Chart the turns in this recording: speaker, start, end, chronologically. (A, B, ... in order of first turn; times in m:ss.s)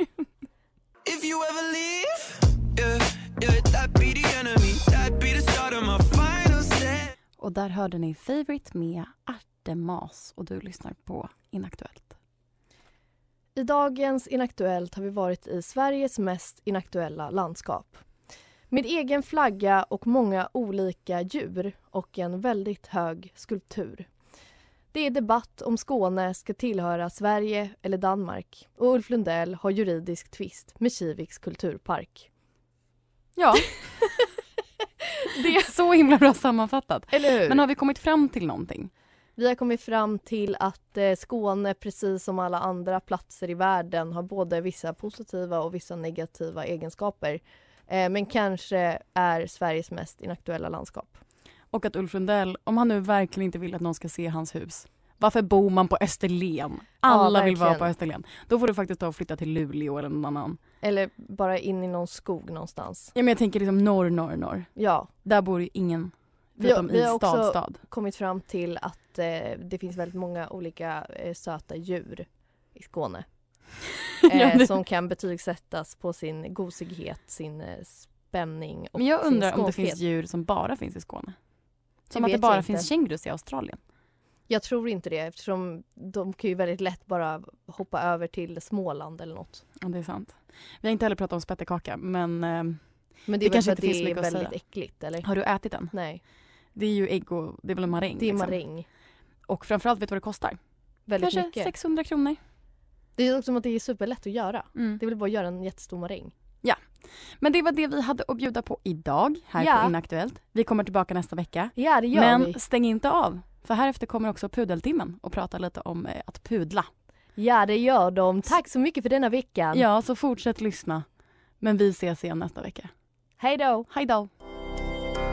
0:01.0-0:07.1 A
0:07.4-0:12.1 B
0:13.6-0:18.0 C
0:18.7-0:24.1 C
0:24.9-0:32.3 C
0:33.4-0:33.8 B
0:35.3-0:35.7 C
0:35.4-0:38.9 B
0:37.1-0:37.6 C
0:39.4-0:51.2 C
0:51.7-1:00.6 B
0:57.0-0:57.9 C
1:00.8-1:03.1 C
1:03.1-1:04.7 B
1:04.8-1:05.1 C
1:05.2-1:07.8 B
1:06.6-1:13.2 C
1:14.2-1:20.0 C
1:14.3-1:14.7 B
1:19.0-1:21.3 B
1:22.1-1:23.8 B
1:22.1-1:22.9 C
1:24.5-1:29.6 C
1:29.8-1:32.8 B
1:33.3-1:35.2 C
1:33.4-1:34.5 B
1:35.2-1:35.9 B
1:35.9-1:36.2 C
1:36.8-1:38.6 B
1:38.2-1:38.8 C
1:39.5-1:40.6 B
1:41.1-1:41.7 C
1:41.2-1:42.4 B
1:43.2-1:46.3 C
1:44.7-1:45.0 B
1:47.4-1:56.9 B
1:49.6-1:49.9 C
1:51.8-1:52.6 C
1:57.4-1:59.8 C
1:59.7-2:01.0 B
2:01.6-2:02.9 B
2:03.4-2:03.9 C
2:03.9-2:04.3 B